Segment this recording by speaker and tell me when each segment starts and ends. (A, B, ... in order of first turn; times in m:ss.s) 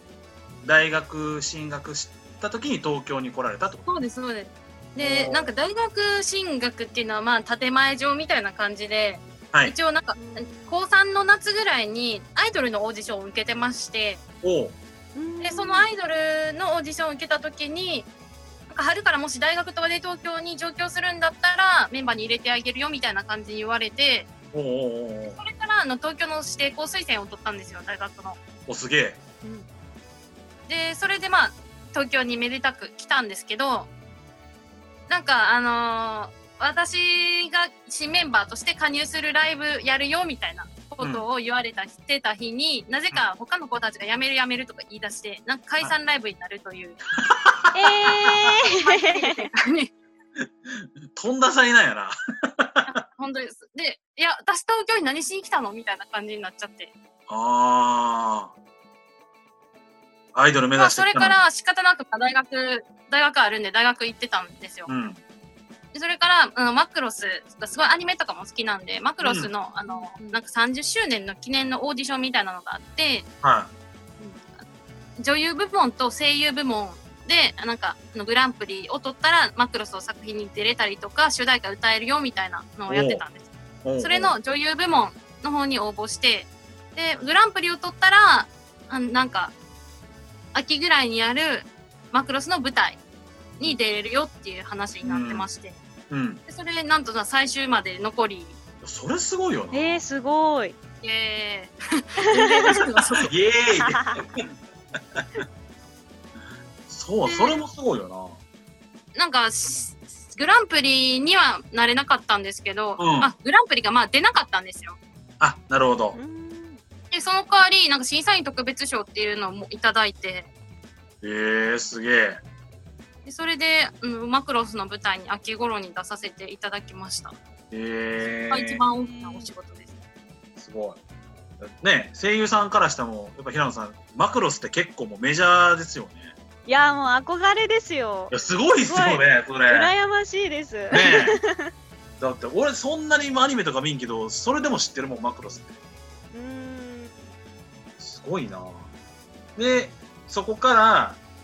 0:00.6-0:03.9 A
0:03.9-0:14.2 B
0:05.0-0:05.5 A
0:10.2-0:10.8 C
0:14.4-0:14.8 A
0:15.2-0:15.9 C
0:15.4-0:18.1 B
0:18.7-0:24.3 B
0:24.5-0:25.4 A
0:25.4-0:28.4 B
0:28.7-0:29.2 A
0:29.4-0:29.7 C
0:30.7-0:33.9 B
0:35.1-0:47.0 B
0:47.2-0:48.5 A
0:47.7-0:49.5 C
0:48.7-0:49.9 B
0:50.7-0:53.0 A
0:52.9-0:56.9 B
0:57.3-0:58.5 A
1:00.4-1:01.4 A
1:00.8-1:04.9 B
1:04.9-1:05.2 A
1:05.9-1:13.3 B
1:09.2-1:09.5 A
1:09.9-1:10.4 C
1:13.4-1:13.7 A
1:15.2-1:23.5 B
1:22.9-1:23.2 A
1:23.8-1:24.4 A
1:24.0-1:29.5 B
1:30.5-1:33.0 B
1:33.6-1:35.8 B
1:35.0-1:35.5 A
1:36.1-1:36.4 A
1:36.5-1:38.6 B
1:38.8-1:40.0 A
1:39.7-1:40.8 C
1:41.0-1:43.3 B
1:42.3-1:42.8 C
1:43.2-1:44.5 A
1:43.8-1:44.2 C
1:45.2-1:45.4 A
1:46.9-1:48.4 A
1:47.3-1:47.6 B
1:49.2-1:55.0 B
1:53.0-1:53.3 A
1:55.4-1:56.2 A
1:56.1-1:56.8 C
1:57.1-2:00.5 B
2:01.2-2:02.4 A
2:03.2-2:07.4 B
2:07.7-2:08.8 A
2:08.5-2:10.0 B
2:09.0-2:09.5 C
2:10.6-2:11.0 A
2:11.6-2:16.3 A
2:16.7-2:18.3 C
2:18.3-2:19.9 A
2:18.8-2:21.7 C
2:20.9-2:21.4 A
2:22.2-2:25.8 A
2:26.3-2:27.3 C
2:28.0-2:28.9 A
2:29.6-2:31.2 A